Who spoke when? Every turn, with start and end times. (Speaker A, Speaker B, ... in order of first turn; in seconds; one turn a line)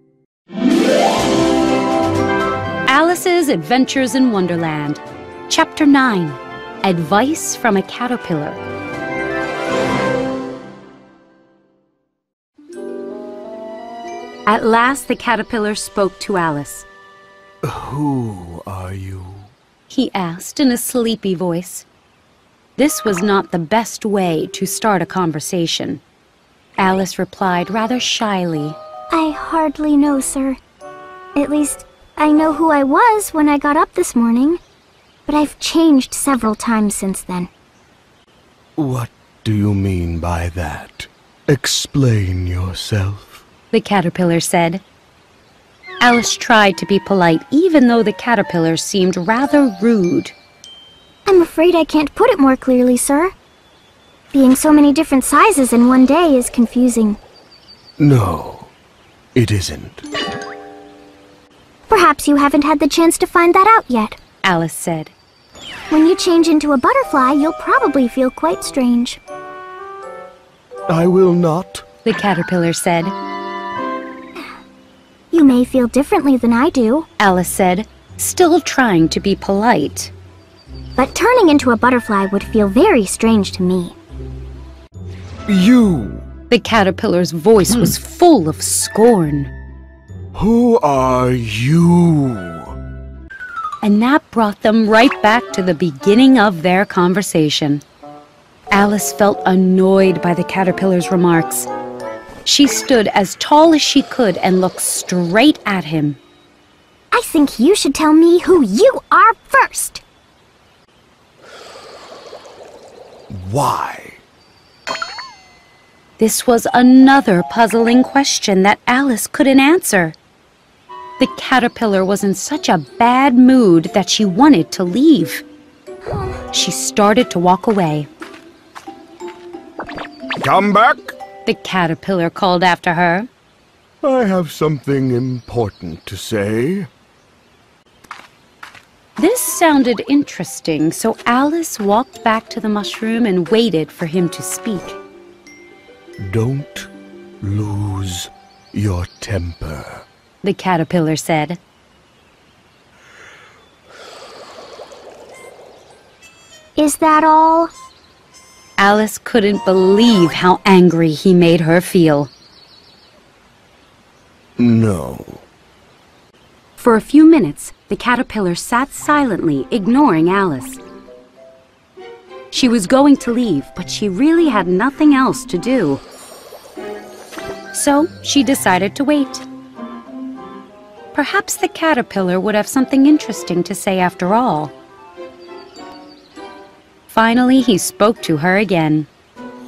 Speaker A: 2.9-8.6
Speaker A: 14.5-16.9
Speaker B: 17.6-19.5
Speaker A: 19.9-21.9
Speaker A: 22.8-26.0
Speaker A: 26.8-28.8
Speaker C: 29.1-30.6
Speaker C: 31.4-34.6
Speaker C: 35.3-37.5
Speaker B: 38.8-43.4
Speaker A: 43.7-44.8
Speaker A: 46.0-50.4
Speaker C: 51.3-53.3
Speaker C: 54.3-57.2
Speaker B: 58.0-58.7
Speaker B: 59.4-60.0
Speaker C: 61.9-64.2
Speaker A: 64.4-65.1
Speaker C: 65.9-69.2
Speaker B: 70.9-71.8
Speaker A: 72.0-73.1
Speaker C: 75.3-77.1
Speaker A: 77.2-80.1
Speaker C: 81.0-84.0
Speaker B: 85.5-86.2
Speaker A: 86.5-89.5
Speaker B: 90.3-92.7
Speaker A: 93.8-97.8
Speaker A: 98.7-101.7
Speaker A: 102.5-106.2
Speaker C: 107.1-110.0
Speaker B: 113.3-114.2
Speaker A: 116.2-120.2
Speaker A: 121.2-125.5
Speaker C: 126.0-126.4
Speaker A: 126.5-128.1
Speaker B: 130.4-131.2
Speaker A: 131.4-133.3
Speaker B: 134.0-136.9
Speaker A: 139.2-145.0
Speaker B: 146.2-146.9
Speaker B: 147.4-150.1
Speaker A: 150.4-151.6
Speaker C: 156.8-157.7
Speaker A: 158.8-162.3
Speaker B: 164.6-165.4
Speaker A: 166.8-170.8
Speaker A: 172.5-176.0
Speaker A: 177.7-179.4
Speaker A: 181.1-184.7
Speaker A: 187.1-189.1